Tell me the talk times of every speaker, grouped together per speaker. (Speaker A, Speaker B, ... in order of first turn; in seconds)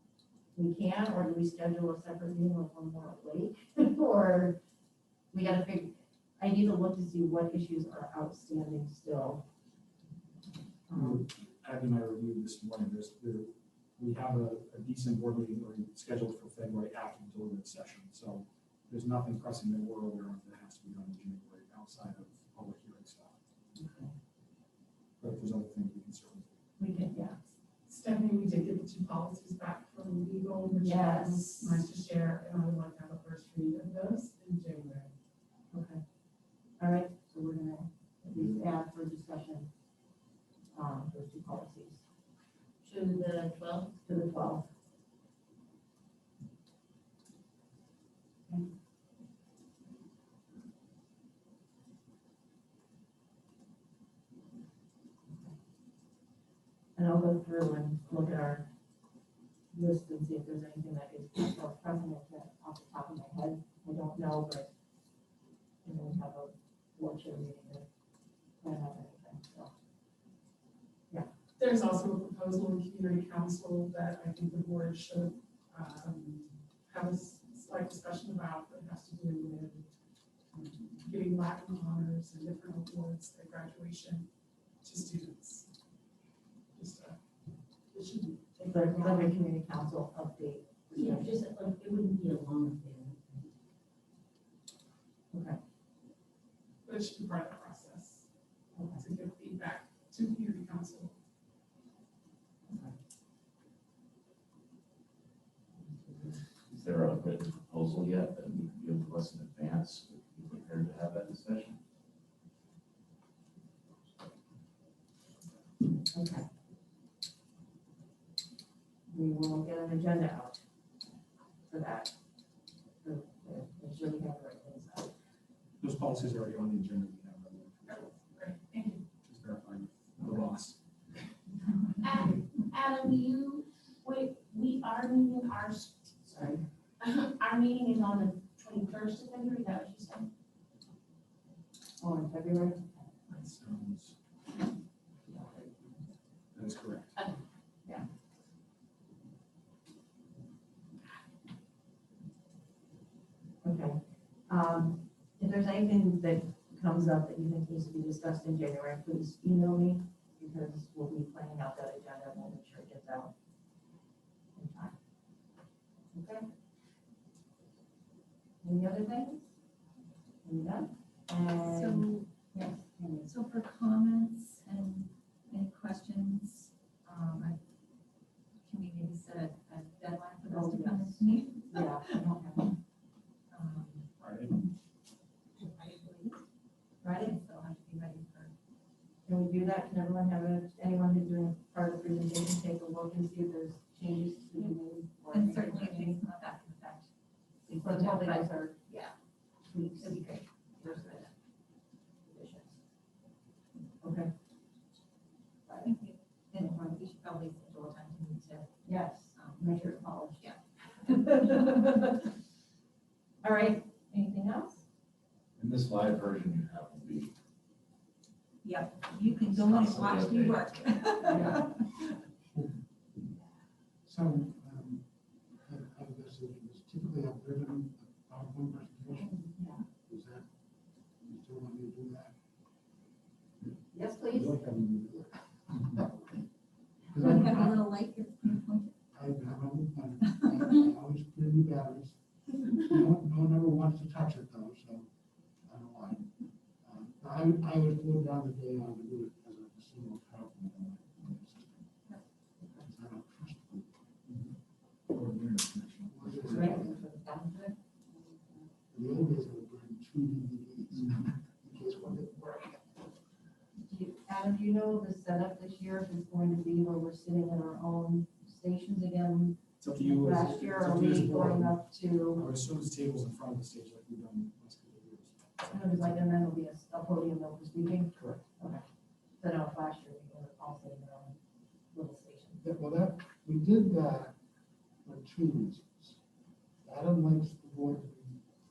Speaker A: 0.5-4.6, 5.3-9.4, 10.9-11.2, 23.7-24.1, 26.8-27.4, 30.8-31.8, 35.7-36.0, 36.8-39.7, 40.7-42.0, 44.0-44.7, 57.0-58.7, 59.7-64.7, 65.8-67.8, 68.6-69.7, 88.6-91.4, 95.3-95.6, 98.7-99.0, 102.7-102.9, 105.9-106.4, 116.0-116.5, 119.1-120.6, 121.7-122.1, 123.0-125.1, 136.3-136.6, 142.0-143.1, 145.3-145.9, 153.6-163.3, 164.5-165.0, 166.1-166.5, 168.6-169.5, 170.4-173.3, 180.4-182.5, 189.2-196.2, 197.7-201.3, 202.2-202.8, 204.0-204.3, 205.7-205.9, 208.8-212.1, 213.4-214.8, 233.9-234.6, 256.5-257.0, 263.8-272.4, 275.7-278.8, 279.4-281.4, 281.9-282.6
Speaker B: 10.9-23.4, 25.2-26.5, 125.8-128.1, 129.2-130.8, 143.3-144.2, 146.5-147.1, 184.2-184.5, 234.3-235.2, 254.3-254.5, 255.1-256.8, 269.8-271.8, 272.4-276.1
Speaker C: 27.9-35.1, 71.6-79.9, 80.5-84.3, 84.8-85.7, 86.7-87.2, 87.9-89.3, 96.8-98.2, 98.9-101.1, 127.9-129.0
Speaker D: 42.8-43.9, 90.9-93.5, 132.0-136.4, 137.0-140.3
Speaker E: 106.7-111.8, 215.6-217.3, 219.5-220.6
Speaker F: 171.6-172.3, 173.2-177.6, 178.6-182.7, 183.5-184.1, 185.6-186.4, 187.0-188.5, 195.3-197.1, 197.7-198.5, 200.0-200.4, 205.8-208.7, 209.3-209.6, 218.6-221.8, 237.1-238.9, 256.5-257.8
Speaker G: 224.1-225.0, 225.6-229.4, 230.1-230.5, 231.2-232.3, 235.8-236.4, 237.1-237.9, 239.1-245.1, 245.7-251.9, 252.8-253.9, 256.1-256.9, 258.9-262.8, 282.6-284.3, 285.0-286.2, 286.8-288.4